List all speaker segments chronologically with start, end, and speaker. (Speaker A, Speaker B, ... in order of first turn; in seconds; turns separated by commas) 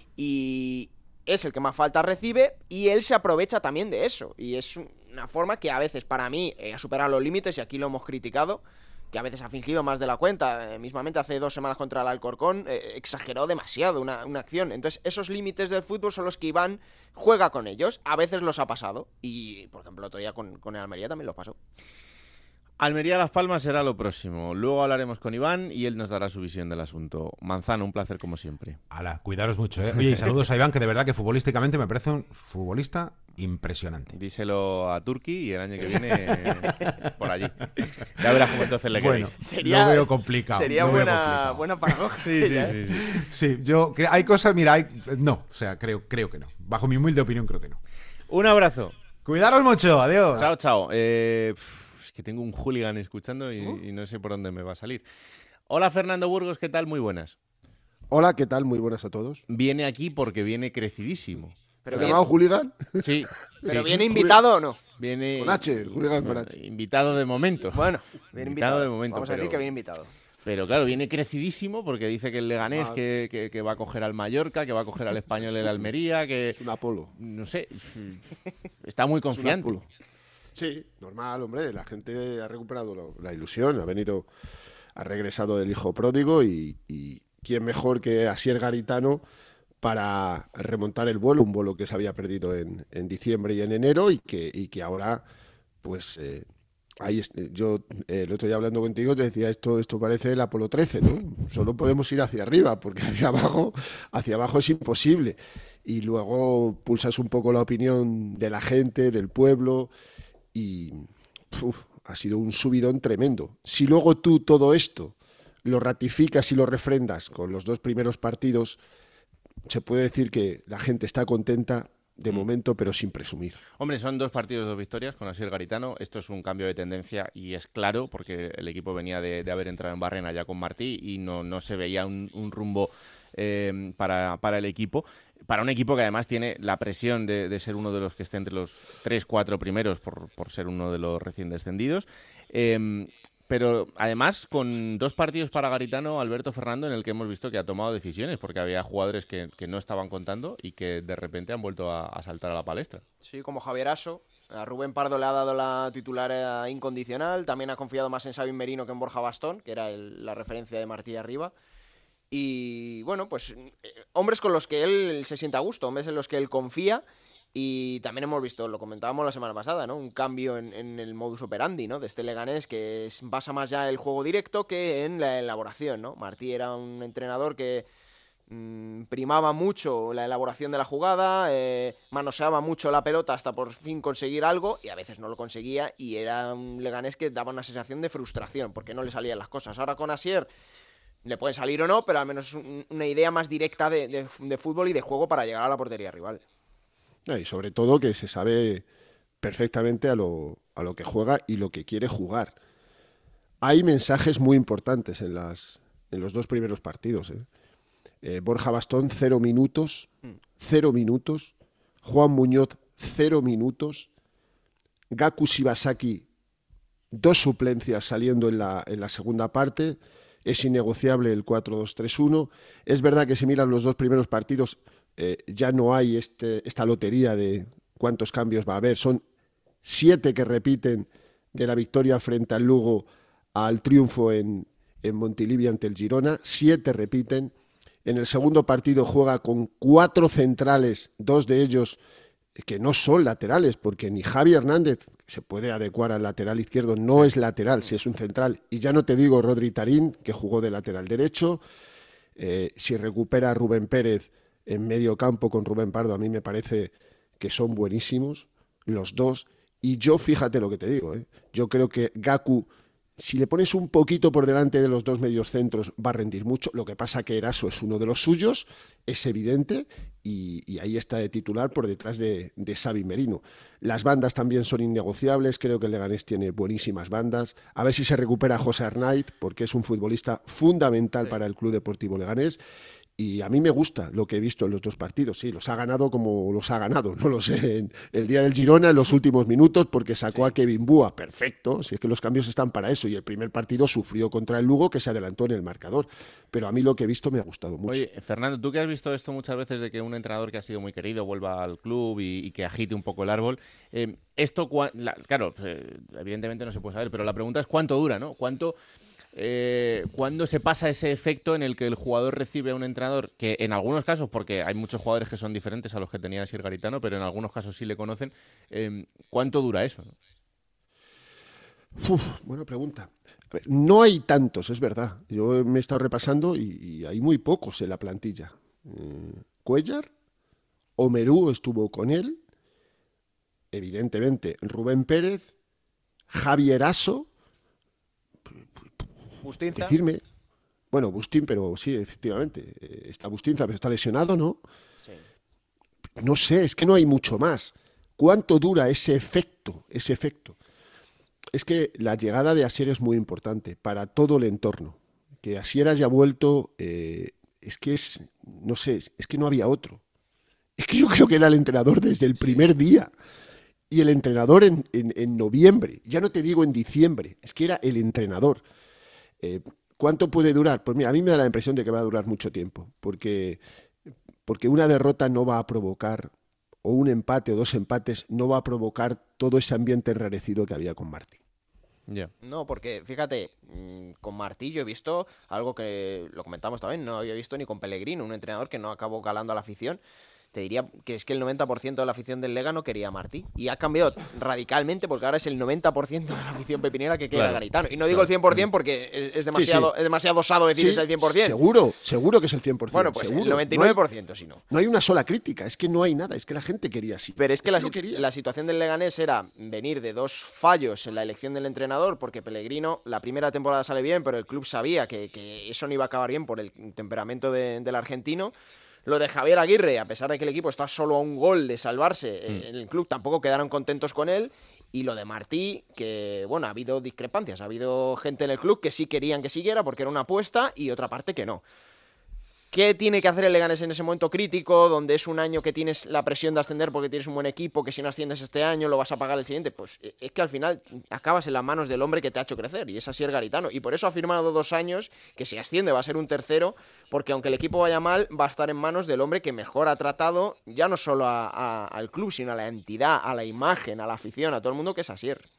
Speaker A: 0.2-21.6, Speaker B: 22.8-28.8, Speaker C: 28.9-34.1, Speaker B: 34.1-39.3, Speaker C: 38.9-41.7, Speaker A: 39.4-42.8, Speaker B: 42.3-43.1, Speaker C: 42.9-47.8, Speaker B: 48.3-48.9, Speaker C: 49.2-50.5, Speaker B: 50.4-55.0, Speaker B: 55.7-57.4, Speaker D: 58.1-59.4, Speaker B: 59.5-62.2, Speaker A: 61.9-62.2, Speaker D: 61.9-64.4, Speaker B: 63.0-64.0, Speaker A: 63.7-64.8, Speaker B: 65.0-69.7, Speaker D: 65.3-66.5, Speaker A: 67.7-70.1, Speaker B: 70.5-76.6, Speaker D: 72.7-73.0, Speaker D: 75.3-75.9, Speaker D: 76.5-77.1, Speaker B: 77.2-78.3, Speaker B: 78.8-79.9, Speaker D: 79.3-79.8, Speaker D: 80.5-84.3, Speaker D: 85.0-89.2, Speaker D: 89.8-95.2, Speaker D: 95.8-96.5, Speaker D: 97.0-109.9, Speaker D: 110.5-118.8, Speaker D: 119.7-123.6, Speaker B: 123.8-153.0, Speaker A: 153.2-161.5, Speaker A: 162.3-167.0, Speaker A: 167.5-177.9, Speaker A: 178.5-190.5, Speaker A: 191.2-196.4, Speaker D: 197.3-198.8, Speaker D: 199.4-202.6, Speaker D: 203.6-207.5, Speaker D: 208.2-214.1, Speaker D: 215.1-216.3, Speaker D: 217.1-229.2, Speaker D: 229.8-237.5, Speaker D: 238.1-242.0, Speaker D: 242.6-251.6, Speaker D: 252.4-282.6, Speaker D: 283.2-298.1, Speaker B: 297.9-308.8, Speaker B: 309.4-320.1, Speaker D: 322.0-330.1, Speaker D: 331.0-332.4, Speaker D: 333.7-335.5, Speaker D: 336.3-337.3, Speaker D: 338.7-339.1, Speaker D: 339.7-340.2, Speaker D: 340.9-344.6, Speaker D: 346.2-350.6, Speaker D: 351.5-360.0, Speaker D: 360.8-363.1, Speaker D: 363.9-368.6, Speaker D: 369.4-373.6, Speaker D: 374.5-376.3, Speaker D: 376.8-381.4, Speaker A: 382.4-390.0, Speaker A: 390.5-401.6, Speaker B: 397.3-397.6, Speaker B: 398.1-398.6, Speaker D: 399.5-399.9, Speaker D: 400.8-404.0, Speaker A: 402.9-404.6, Speaker D: 404.7-408.3, Speaker A: 407.4-418.5, Speaker A: 419.1-431.6, Speaker A: 432.7-455.5